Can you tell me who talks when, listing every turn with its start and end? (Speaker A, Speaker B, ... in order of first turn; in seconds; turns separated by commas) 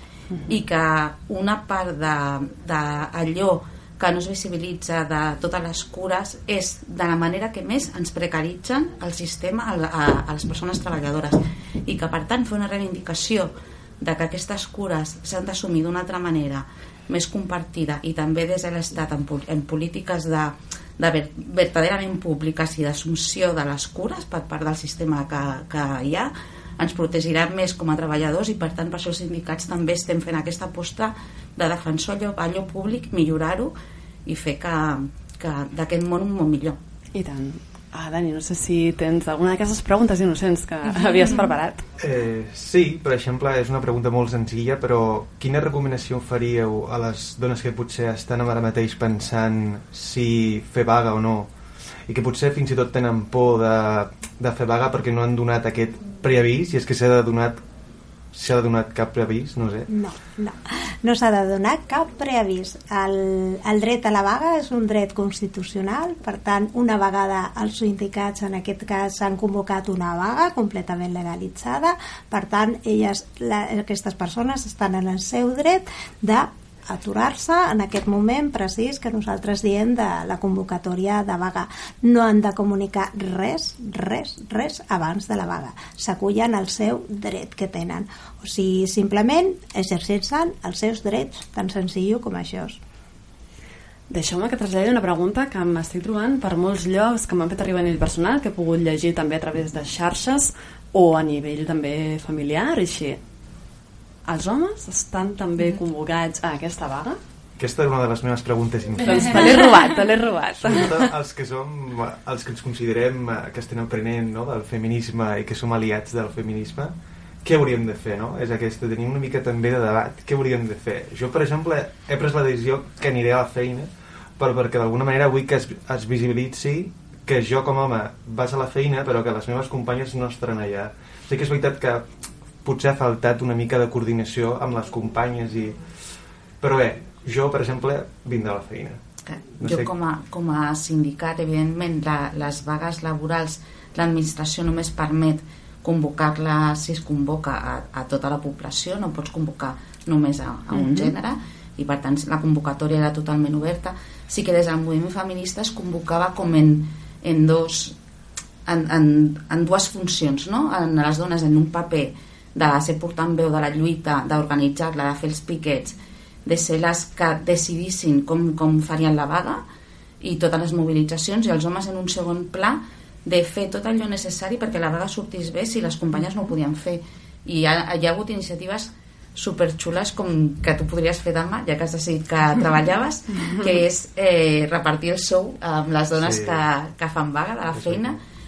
Speaker A: 0.5-33.7, Speaker A: 34.3-36.8, Speaker B: 37.1-41.8, Speaker C: 42.0-51.5, Speaker C: 52.1-57.6, Speaker C: 58.3-59.9, Speaker D: 59.9-92.8, Speaker B: 94.1-103.2, Speaker B: 104.3-107.2, Speaker C: 107.6-109.5, Speaker B: 109.0-111.1, Speaker C: 110.6-132.1, Speaker C: 132.6-135.8, Speaker C: 136.6-139.0, Speaker A: 139.2-158.0, Speaker C: 139.6-139.9, Speaker B: 150.7-151.1, Speaker A: 158.7-169.6, Speaker A: 170.2-188.2, Speaker C: 186.1-186.6, Speaker C: 187.7-188.2